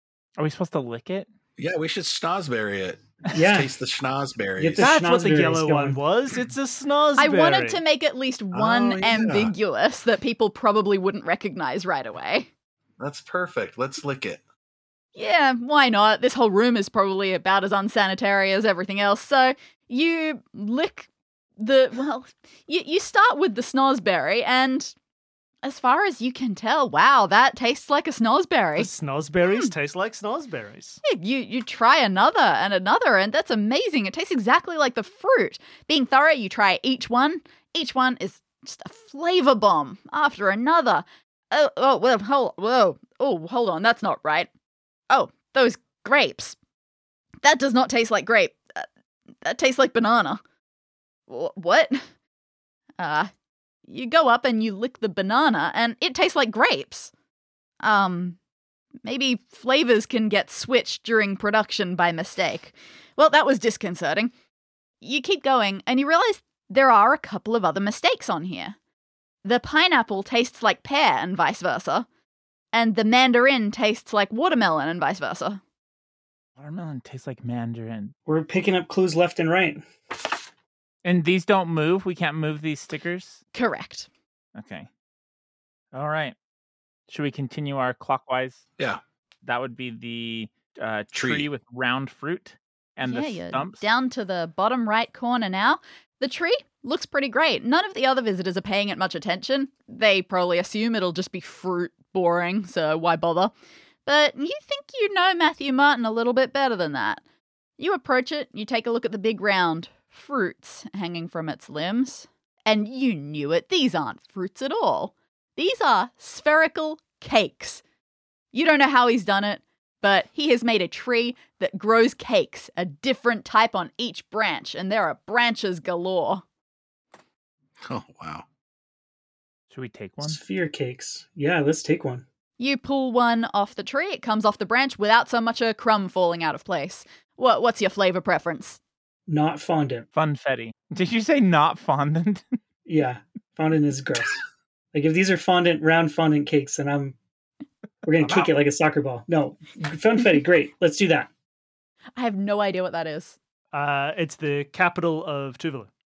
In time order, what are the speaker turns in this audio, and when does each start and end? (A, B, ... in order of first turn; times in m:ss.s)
0:00.4-0:01.3 A
0:01.6-0:04.9 B
0:03.3-0:03.7 C
0:04.6-0:06.0 C
0:04.8-0:07.8 D
0:07.2-0:12.5 E
0:08.5-0:09.5 B
0:13.0-0:14.4 B
0:15.2-0:24.9 E
0:25.6-0:28.9 E
0:28.8-0:31.0 D
0:31.0-0:44.5 E
0:45.1-0:46.6 E
0:47.4-0:48.9 E
0:49.4-0:50.4 E
0:51.3-0:52.0 E
0:53.0-0:53.3 E
0:53.9-0:57.1 E
0:57.8-0:58.4 E
0:59.0-1:04.3 E
1:05.0-1:08.8 E
1:09.4-1:12.1 E
1:12.7-1:15.6 E
1:16.6-1:18.1 A
1:18.3-1:19.9 C
1:21.0-1:23.4 A
1:23.5-1:24.1 E
1:24.6-1:24.9 A
1:25.9-1:26.4 A
1:27.1-1:28.6 A
1:29.4-1:33.8 A
1:31.1-1:31.5 B
1:33.0-1:43.5 E
1:44.1-1:47.2 E
1:47.8-1:57.8 E
1:58.5-2:06.4 E
2:07.8-2:08.4 B
2:09.7-2:10.4 A
2:10.2-2:12.2 C
2:12.6-2:18.8 E
2:19.3-2:20.1 C
2:20.2-2:22.6 A
2:22.9-2:24.4 C
2:24.9-2:27.2 C
2:28.0-2:31.3 C
2:32.2-2:33.4 E
2:33.7-2:35.9 D